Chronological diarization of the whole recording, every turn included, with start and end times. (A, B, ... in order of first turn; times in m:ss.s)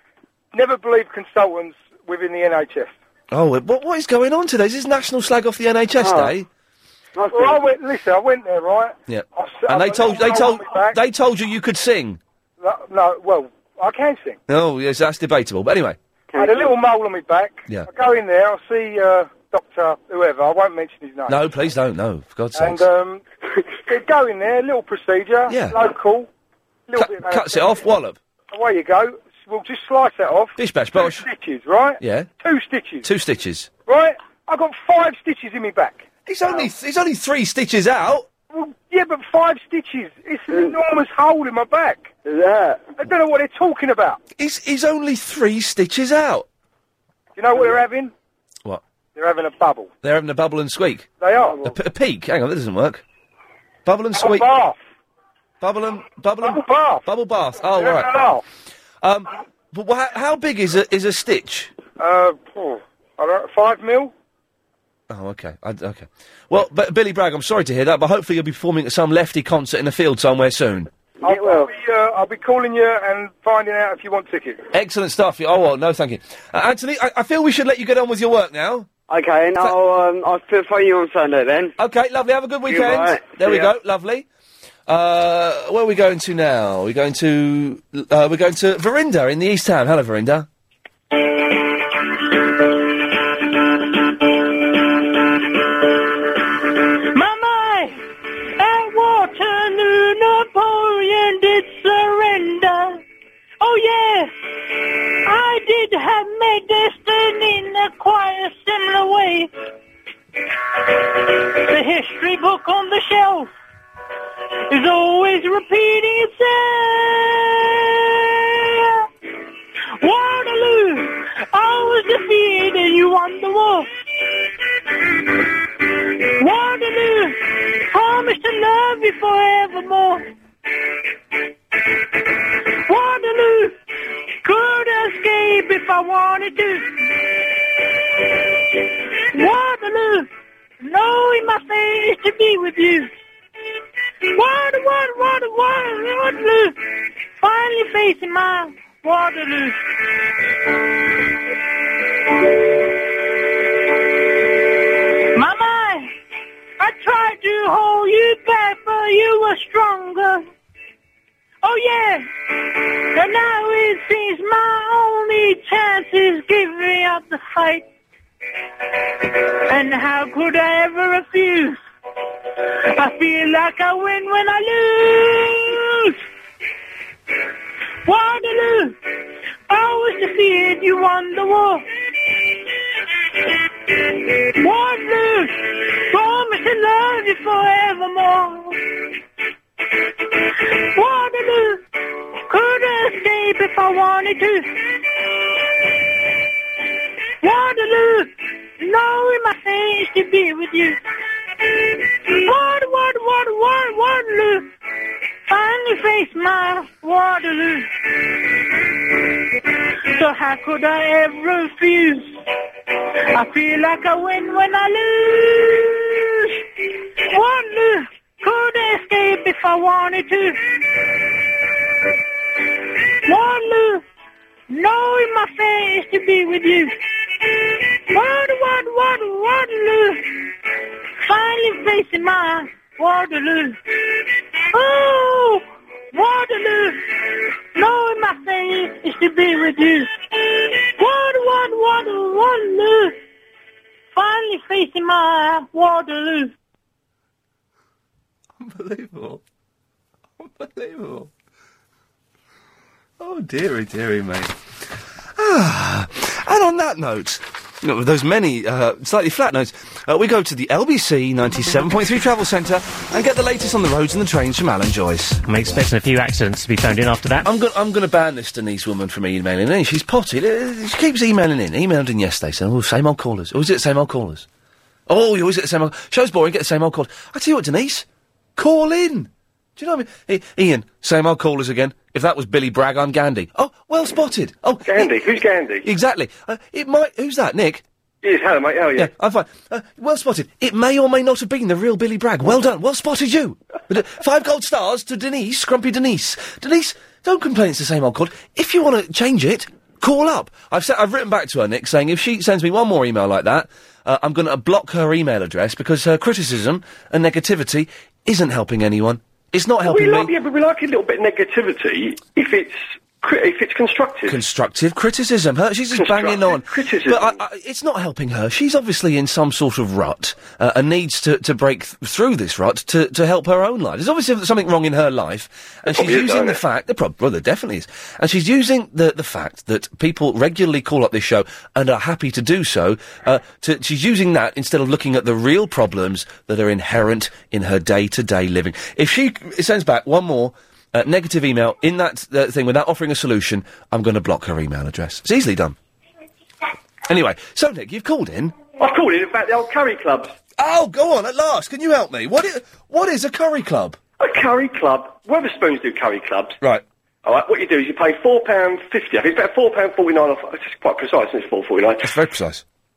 0:00.5-0:02.9 A
0:03.3-0:06.5 B
0:06.0-0:06.4 C
0:07.2-0:07.6 C
0:07.3-0:11.0 A
0:09.1-0:12.2 B
0:12.6-0:14.4 A
0:14.5-0:16.0 B
0:16.3-0:16.7 C
0:16.4-0:21.4 A
0:21.3-0:22.8 B
0:22.6-0:23.2 A
0:23.9-0:26.3 A
0:25.5-0:25.8 B
0:26.9-0:27.7 A
0:27.0-0:28.2 B
0:28.5-0:33.1 A
0:30.6-0:31.3 B
0:32.0-0:32.3 B
0:33.0-0:33.7 B
0:33.9-0:36.6 A
0:36.3-0:38.3 B
0:38.5-0:42.1 A
0:42.3-0:42.9 C
0:43.0-0:44.2 A
0:44.4-0:46.5 B
0:47.4-0:48.1 A
0:49.2-0:49.9 A
0:50.0-0:51.1 B
0:51.2-0:51.6 A
0:51.6-0:53.0 B
0:53.9-0:54.5 B
0:54.2-0:54.8 A
0:55.6-0:58.2 B
0:56.4-0:57.0 A
0:57.8-0:58.4 A
0:59.0-1:01.7 B
1:02.0-1:04.1 A
1:05.1-1:10.9 B
1:11.2-1:11.7 C
1:11.2-1:14.6 A
1:14.7-1:18.9 B
1:19.1-1:21.7 C
1:21.8-1:24.3 B
1:22.7-1:23.7 C
1:24.9-1:30.5 B
1:37.1-1:37.9 D
1:38.6-1:43.0 D
1:43.6-1:44.3 D
1:45.2-1:49.5 D
1:51.6-1:53.5 D
1:54.7-1:59.0 D
2:00.0-2:03.9 D
2:06.4-2:10.3 D
2:12.9-2:13.8 D
2:14.4-2:16.8 D
2:19.3-2:20.3 D
2:20.8-2:23.1 D
2:24.3-2:26.8 D
2:27.4-2:29.8 D
2:35.3-2:36.1 D
2:36.8-2:40.4 D
2:41.6-2:42.2 D
2:43.1-2:47.8 D
2:49.7-2:51.8 D
2:53.0-2:56.2 D
2:58.1-2:59.0 D
2:59.7-3:01.8 D
3:04.6-3:08.8 D
3:10.9-3:11.8 D
3:12.5-3:14.6 D
3:17.4-3:21.0 D
3:22.3-3:24.7 D
3:25.5-3:27.9 D
3:30.2-3:32.3 D
3:33.3-3:36.3 D
3:37.3-3:40.5 D
3:43.3-3:44.0 D
3:44.7-3:46.9 D
3:48.1-3:50.2 D
3:51.2-3:53.8 D
3:54.7-3:55.6 D
3:56.1-3:57.0 D
3:57.8-4:00.1 D
4:00.9-4:03.1 D
4:04.2-4:06.5 D
4:08.6-4:09.4 B
4:10.4-4:11.3 B
4:13.2-4:14.5 B
4:15.4-4:25.4 B
4:25.5-4:27.5 E
4:27.4-4:34.5 B
4:35.1-4:45.1 B
4:44.9-4:45.9 F
4:45.8-4:47.8 B
4:48.2-4:49.1 F
4:49.0-5:10.3 B
5:09.8-5:14.4 F
5:14.3-5:45.8 B
5:15.9-5:17.4 F
5:25.9-5:26.6 F
5:47.1-5:48.6 B
5:48.8-5:50.3 F
5:50.6-5:54.0 B
5:54.2-5:56.6 F
5:57.2-6:02.1 F
6:02.0-6:02.6 B